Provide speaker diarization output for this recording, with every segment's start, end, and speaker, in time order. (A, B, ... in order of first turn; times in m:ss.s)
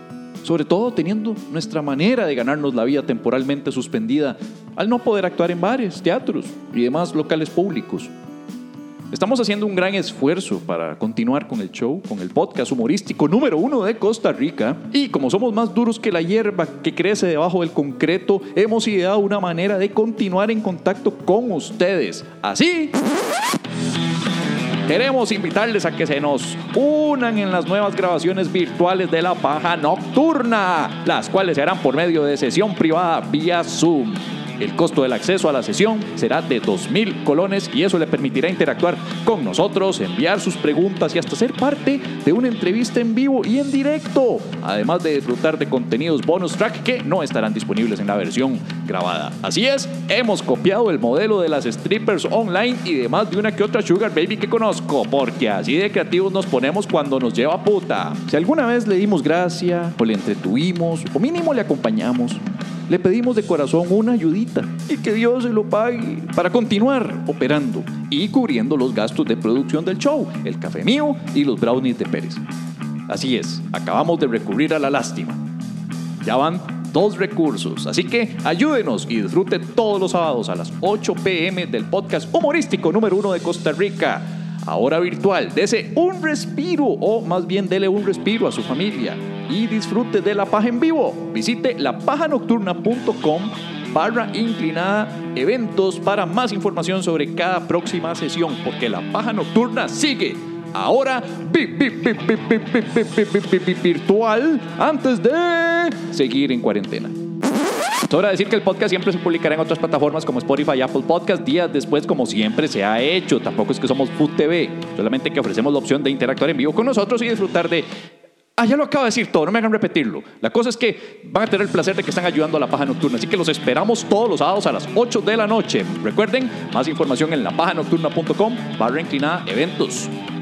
0:00.4-0:08.1 A
0:09.1-0:23.0 A
0:24.8-1:12.4 A
1:13.1-1:15.4 A
1:16.2-1:47.1 A
1:48.0-1:57.8 A
1:58.6-2:10.1 A